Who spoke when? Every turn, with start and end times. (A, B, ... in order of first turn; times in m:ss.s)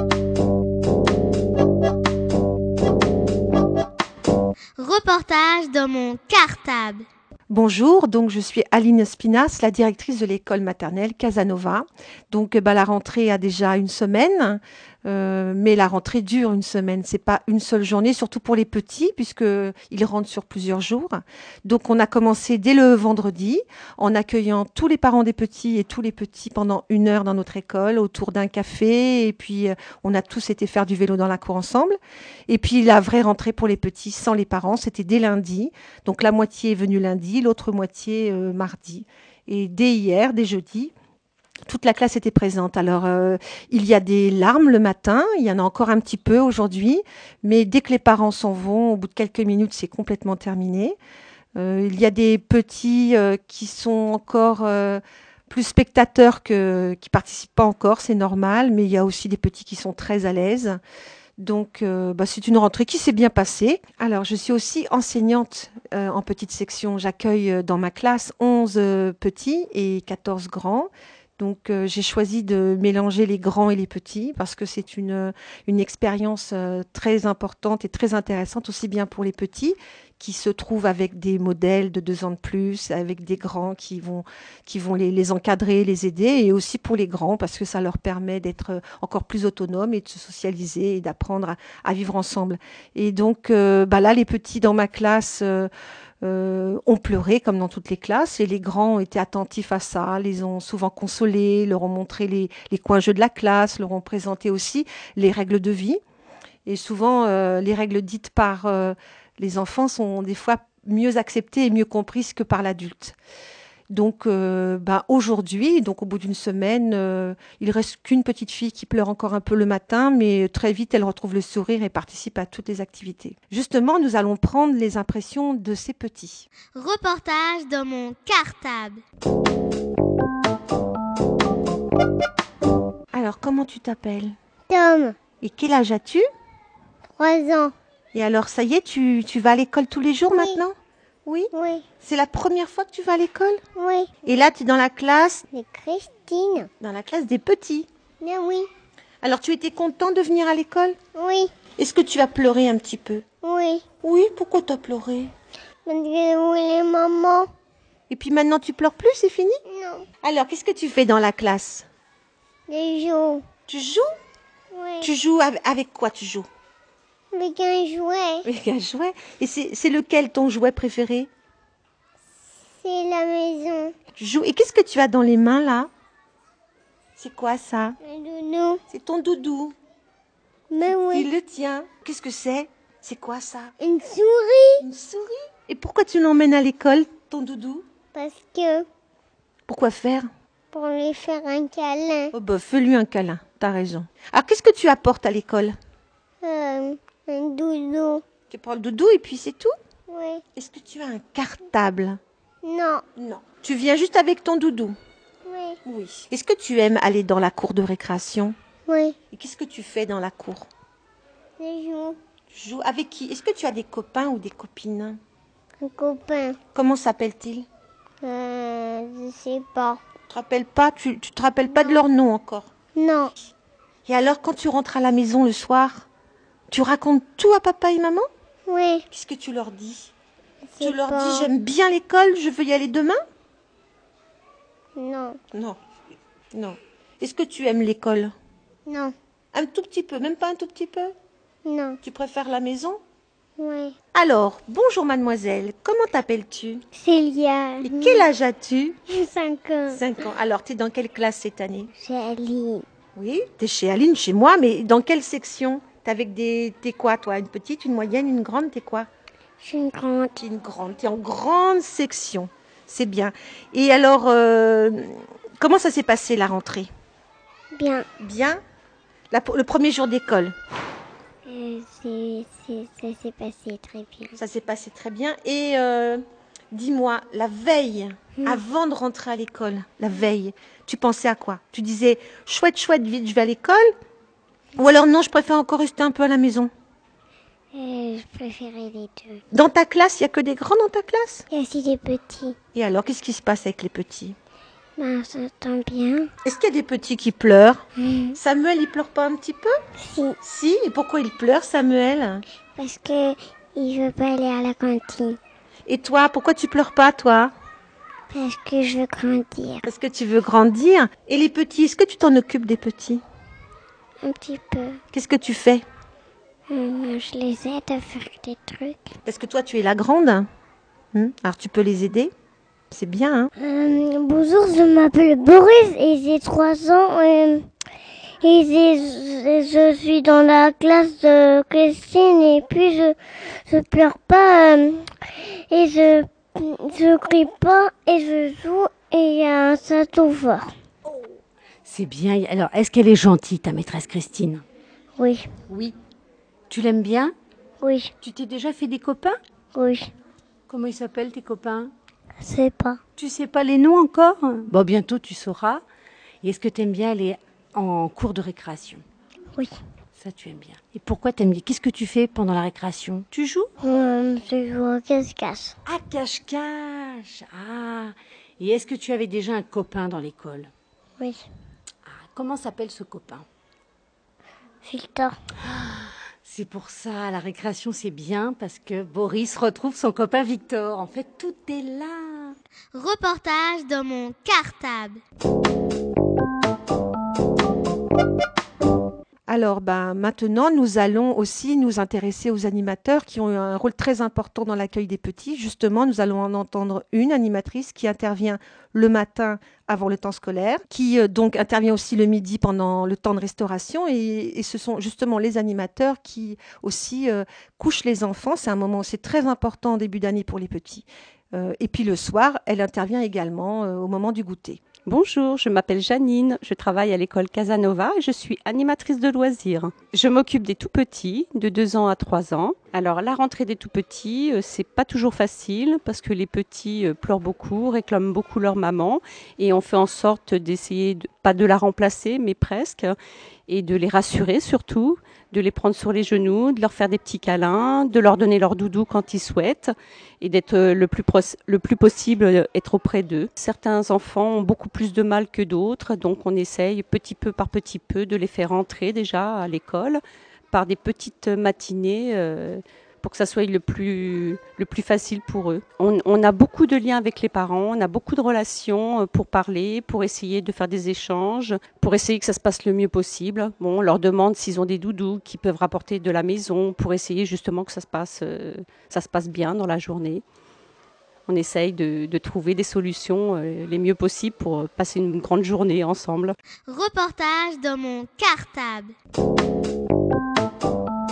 0:04.8-0:07.0 A
0:07.5-0:40.9 B
0:41.7-0:51.0 B
0:51.5-1:00.8 B
1:01.4-1:35.7 B
1:36.2-1:46.0 B
1:46.6-1:53.2 B
1:53.9-2:06.5 B
2:06.7-2:09.0 A
2:13.1-2:14.3 B
2:14.7-2:15.2 C
2:15.4-2:16.2 B
2:17.2-2:17.7 C
2:18.1-2:20.7 B
2:20.3-2:20.6 C
2:21.2-2:23.6 B
2:21.5-2:21.9 C
2:23.8-2:24.2 C
2:24.2-2:25.4 B
2:25.5-2:26.7 C
2:26.8-2:27.9 B
2:28.2-2:28.7 C
2:29.2-2:31.0 B
2:31.1-2:31.6 C
2:31.7-2:33.2 B
2:33.4-2:33.9 C
2:34.0-2:35.3 B
2:35.8-2:37.5 C
2:38.1-2:39.5 B
2:39.7-2:40.1 C
2:40.2-2:41.8 B
2:42.7-2:43.4 C
2:43.7-2:44.0 B
2:44.7-2:45.1 C
2:45.0-2:46.5 B
2:47.3-2:48.4 C
2:48.4-2:51.3 B
2:52.8-2:53.9 C
2:54.2-2:55.9 B
2:57.2-2:58.0 B
2:58.0-2:58.8 C
2:58.9-2:59.7 B
3:00.7-3:01.3 C
3:00.8-3:03.7 B
3:03.8-3:04.8 C
3:04.8-3:07.8 B
3:08.1-3:08.8 C
3:09.7-3:10.3 B
3:10.7-3:12.3 C
3:12.3-3:15.8 B
3:16.4-3:18.2 C
3:18.5-3:19.7 B
3:20.1-3:20.4 C
3:20.5-3:22.2 B
3:22.6-3:23.0 C
3:23.2-3:25.0 B
3:25.4-3:25.8 C
3:25.8-3:28.5 B
3:28.9-3:29.2 C
3:29.3-3:30.6 B
3:31.6-3:32.2 C
3:32.5-3:35.2 B
3:35.8-3:36.6 C
3:36.7-3:37.7 B
3:38.2-3:40.0 C
3:40.3-3:42.7 B
3:41.7-3:42.0 C
3:42.9-3:43.3 C
3:44.0-3:46.0 B
3:46.7-3:48.2 B
3:48.7-3:49.0 C
3:49.1-3:50.1 B
3:50.7-3:51.5 C
3:50.8-3:53.2 B
3:54.9-3:55.4 C
3:56.5-3:58.3 B
3:58.8-3:59.1 C
3:59.5-4:01.1 B
4:01.6-4:02.0 C
4:02.0-4:03.0 B
4:03.6-4:03.9 C
4:04.1-4:06.8 B
4:06.9-4:08.3 C
4:07.8-4:09.0 B
4:09.1-4:10.0 C
4:09.9-4:11.9 B
4:12.0-4:12.8 C
4:13.2-4:19.1 B
4:19.6-4:20.4 C
4:20.4-4:26.9 B
4:27.7-4:28.1 C
4:28.2-4:28.6 B
4:29.3-4:30.5 B
4:31.4-4:34.4 C
4:34.4-4:43.9 B
4:44.8-4:46.7 B
4:47.7-4:49.4 C
4:49.5-4:51.4 B
4:51.5-4:52.6 C
4:52.7-4:54.3 B
4:55.0-4:56.3 C
4:56.4-4:57.8 B
4:58.0-4:58.4 C
4:58.4-4:59.7 B
5:00.0-5:00.4 C
5:00.4-5:02.4 B
5:02.8-5:05.4 C
5:05.9-5:07.5 B
5:08.3-5:09.8 C
5:09.8-5:13.2 B
5:14.2-5:15.0 C
5:15.1-5:15.8 B
5:16.7-5:19.1 C
5:19.2-5:20.5 B
5:21.1-5:22.3 B
5:22.9-5:23.5 B
5:23.6-5:27.7 C
5:28.4-5:40.7 C
5:41.8-5:44.6 D
5:45.2-5:45.6 C
5:45.7-5:46.0 D
5:46.7-5:47.3 D
5:47.8-5:48.1 C
5:48.2-5:49.4 D
5:49.7-5:50.1 C
5:50.7-5:51.9 D
5:52.4-5:53.0 C
5:53.2-5:55.8 D
5:56.4-5:59.0 D
6:00.2-6:03.7 D
6:03.8-6:05.8 C
6:05.8-6:10.7 D
6:11.2-6:11.4 C
6:12.0-6:13.4 D
6:14.8-6:15.4 C
6:15.6-6:22.6 D
6:22.9-6:25.2 A
6:29.5-6:54.8 B
6:55.1-7:13.1 E
7:13.7-7:30.2 E
7:30.7-7:50.4 E
7:51.5-7:56.6 E
7:56.9-7:59.1 A